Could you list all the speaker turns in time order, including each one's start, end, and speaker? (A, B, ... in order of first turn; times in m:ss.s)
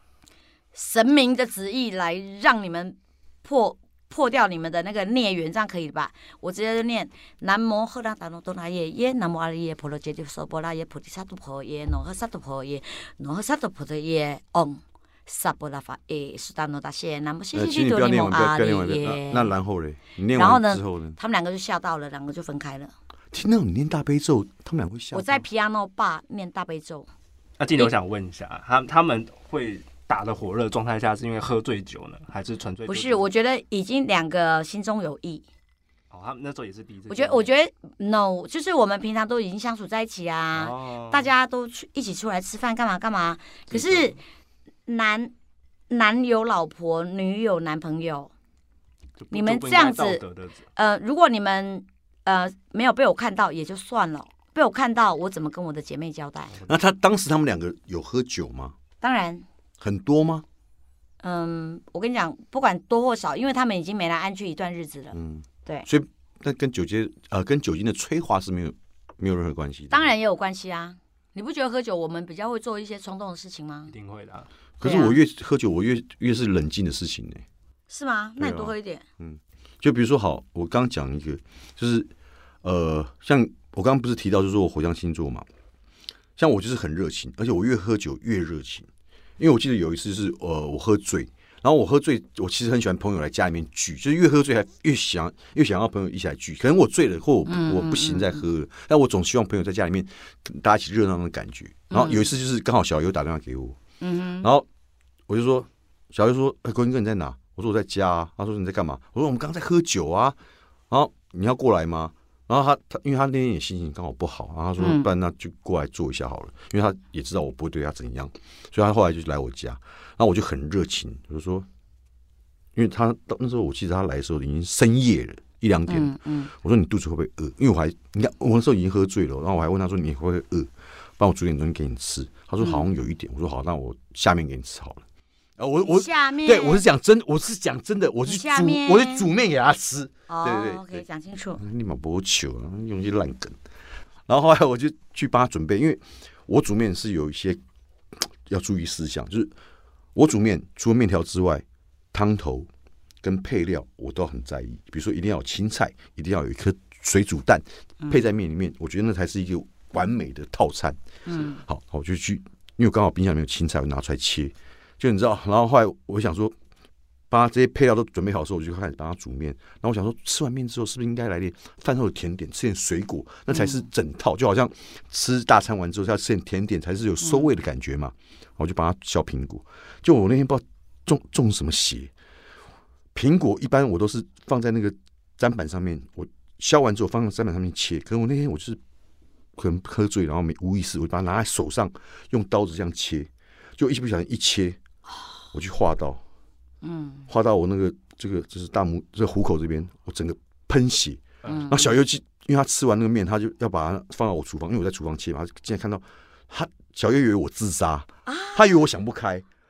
0:00.7-0:19.5 A
0:17.5-0:21.2 B
0:20.3-0:22.9 A
0:23.3-0:25.4 B
0:25.1-0:27.1 A
0:27.6-0:33.3 C
0:32.9-0:35.4 A
0:36.1-0:37.5 C
0:37.1-0:44.2 A
0:40.6-0:41.3 C
0:44.9-0:45.3 A
0:45.9-0:48.3 A
0:49.2-0:50.6 C
0:49.3-0:50.2 A
0:50.8-0:56.6 A
0:56.7-0:58.8 B
0:59.0-0:59.5 A
0:59.8-1:00.4 B
1:01.2-1:05.9 A
1:05.1-1:10.1 B
1:09.9-1:13.9 A
1:13.9-1:14.5 C
1:14.8-1:17.4 B
1:14.8-1:15.2 A
1:17.9-1:19.0 A
1:18.4-1:22.1 B
1:22.6-1:25.5 B
1:26.4-1:28.9 B
1:29.4-1:43.8 B
1:37.5-1:38.4 A
1:41.9-1:42.3 A
1:44.0-1:44.5 A
1:45.3-1:50.4 B
1:50.9-2:01.7 B
1:54.8-1:55.1 A
2:02.8-2:15.0 B
2:05.9-2:06.5 A
2:12.6-2:12.9 A
2:15.6-2:21.0 B
2:15.9-2:16.8 A
2:18.3-2:19.3 A
2:20.3-2:21.6 A
2:21.6-2:23.6 B
2:24.3-2:27.6 B
2:28.2-2:29.5 B
2:30.2-2:32.7 B
2:33.2-2:41.0 B
2:41.3-2:41.6 A
2:41.6-2:46.6 B
2:47.3-3:02.1 B
2:53.5-2:53.8 A
3:03.1-3:08.8 B
3:09.6-3:14.8 B
3:15.5-3:16.2 B
3:16.8-3:17.3 A
3:17.3-3:29.4 B
3:21.5-3:21.9 A
3:28.3-3:28.6 A